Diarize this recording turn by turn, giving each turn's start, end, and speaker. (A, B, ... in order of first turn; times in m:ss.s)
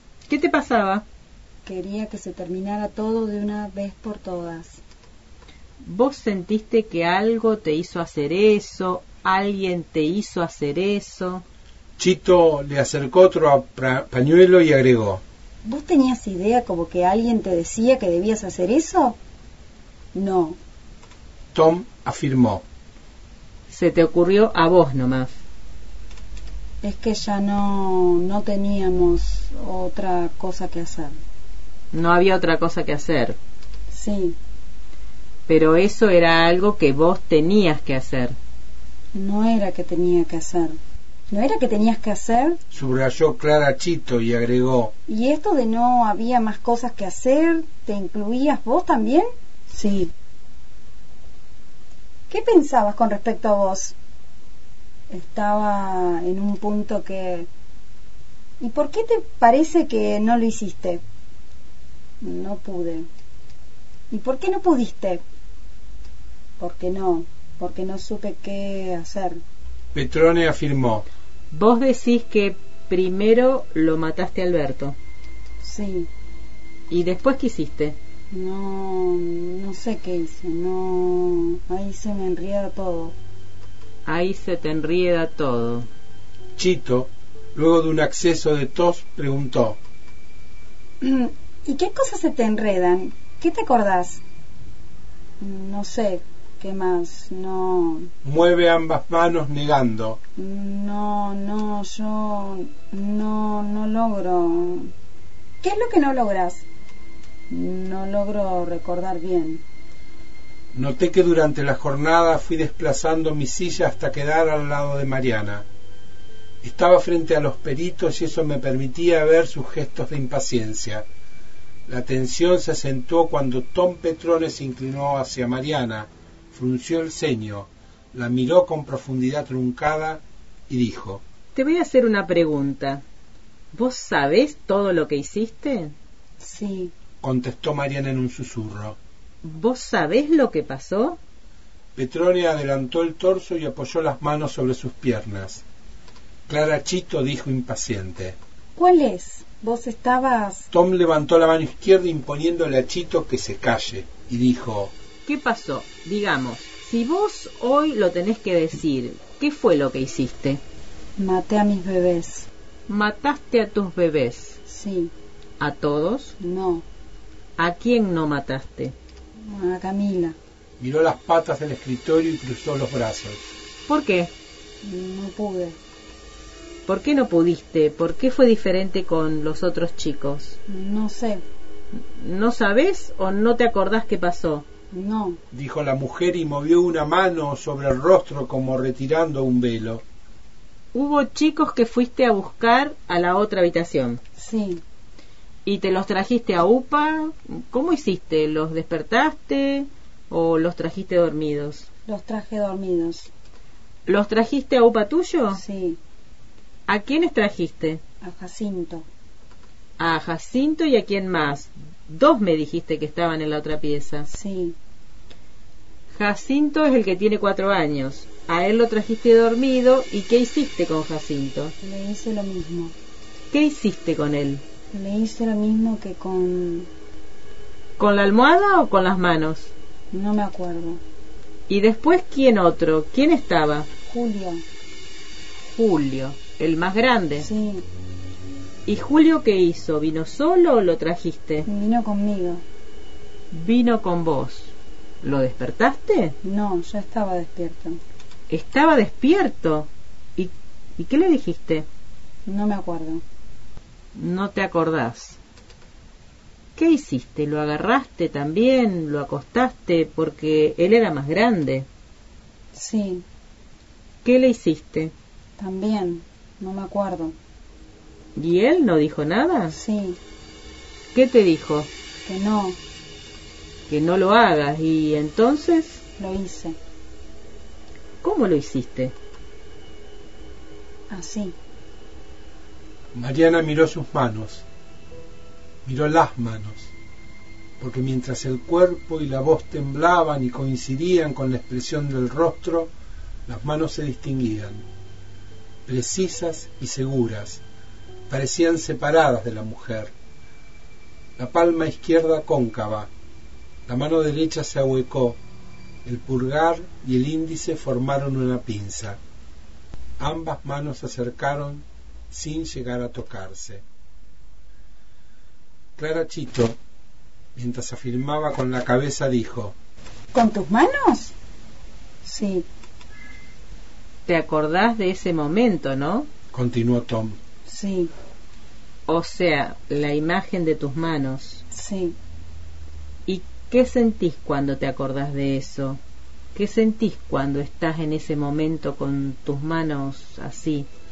0:00.3-0:01.0 A
0:01.6-0:04.8 B
0:05.8-0:11.4 A
0:12.0-0:15.2 C
0:15.6-0:19.2 B
0:20.1-0:20.6 B
0:21.5-0:22.6 C
0:23.7-0:25.3 A
0:26.8-0:31.2 B
0:31.9-0:33.4 A
0:33.9-0:34.4 B
0:35.5-0:38.4 A
0:39.1-0:40.8 B
0:41.3-0:42.6 B
0:42.7-0:44.9 C
0:45.1-0:50.1 B
0:52.3-0:54.0 B
0:55.1-0:57.5 B
0:58.6-1:01.0 B
1:02.2-1:03.1 B
1:04.1-1:05.2 B
1:06.6-1:09.4 B
1:09.9-1:11.0 C
1:11.5-1:15.0 A
1:15.6-1:16.1 B
1:16.9-1:18.0 A
1:18.3-1:23.2 B
1:24.0-1:25.9 A
1:26.6-1:29.8 C
1:31.0-1:34.2 B
1:35.4-1:38.1 B
1:38.2-1:40.2 C
1:40.4-1:44.9 B
1:45.6-1:46.6 B
1:47.5-1:49.6 B
1:50.7-1:55.6 C
1:56.6-2:01.0 C
2:01.8-2:11.2 C
2:11.5-2:13.0 A
2:13.7-2:15.9 A
2:16.4-2:16.9 B
2:17.2-2:19.0 C
2:19.4-2:21.2 A
2:21.9-2:25.6 C
2:26.5-2:28.4 C
2:28.8-2:30.7 B
2:30.7-2:34.9 C
2:35.2-2:40.6 A
2:41.2-2:42.5 B
2:42.9-2:44.6 A
2:44.7-2:45.1 B
2:45.6-2:46.4 A
2:46.4-2:46.8 B
2:47.6-2:48.9 A
2:49.4-2:50.4 B
2:50.8-2:53.4 C
2:53.9-2:54.3 A
2:54.8-2:55.8 B
2:56.8-3:00.6 A
3:00.7-3:01.4 B
3:01.9-3:04.6 A
3:04.9-3:05.4 B
3:05.5-3:10.0 C
3:10.9-3:14.2 A
3:14.4-3:14.8 B
3:15.6-3:21.9 A
3:22.1-3:23.3 B
3:24.0-3:25.6 A
3:25.5-3:26.0 B
3:26.9-3:28.0 A
3:28.2-3:29.0 B
3:30.0-3:34.3 A
3:34.3-3:34.8 B
3:36.1-3:41.7 A
3:41.8-3:42.9 B
3:43.5-3:44.6 A
3:44.9-3:46.9 B
3:48.0-3:49.7 A
3:50.1-3:51.0 B
3:51.7-3:53.9 A
3:54.1-3:54.6 B
3:55.6-3:57.5 A
3:57.4-3:57.8 B
3:58.8-4:01.7 A
4:01.6-4:02.6 B
4:03.5-4:06.3 A
4:06.4-4:08.0 B
4:08.5-4:11.8 A
4:12.4-4:13.2 B
4:14.1-4:15.4 A
4:16.8-4:21.9 A
4:22.7-4:23.2 B
4:24.2-4:25.1 A
4:25.6-4:27.3 B
4:28.3-4:29.8 A
4:29.7-4:30.2 B
4:31.1-4:31.9 A
4:32.2-4:32.8 B
4:33.9-4:36.0 A
4:36.2-4:36.8 B
4:38.2-4:39.1 A
4:41.1-4:41.5 B
4:43.1-4:44.6 C
4:45.8-4:46.9 C
4:47.8-4:52.9 C
4:53.4-4:54.9 C
4:55.8-4:57.6 C
4:58.3-5:00.1 C
5:01.4-5:03.1 C
5:03.8-5:05.4 C
5:06.0-5:09.2 C
5:10.2-5:13.8 C
5:16.0-5:16.8 C
5:17.5-5:19.8 C
5:20.3-5:21.3 B
5:22.2-5:22.7 B
5:24.2-5:26.3 A
5:26.5-5:27.4 C
5:27.6-5:28.1 B
5:29.1-5:31.6 A
5:31.7-5:32.2 B
5:33.3-5:36.0 A
5:36.5-5:40.9 A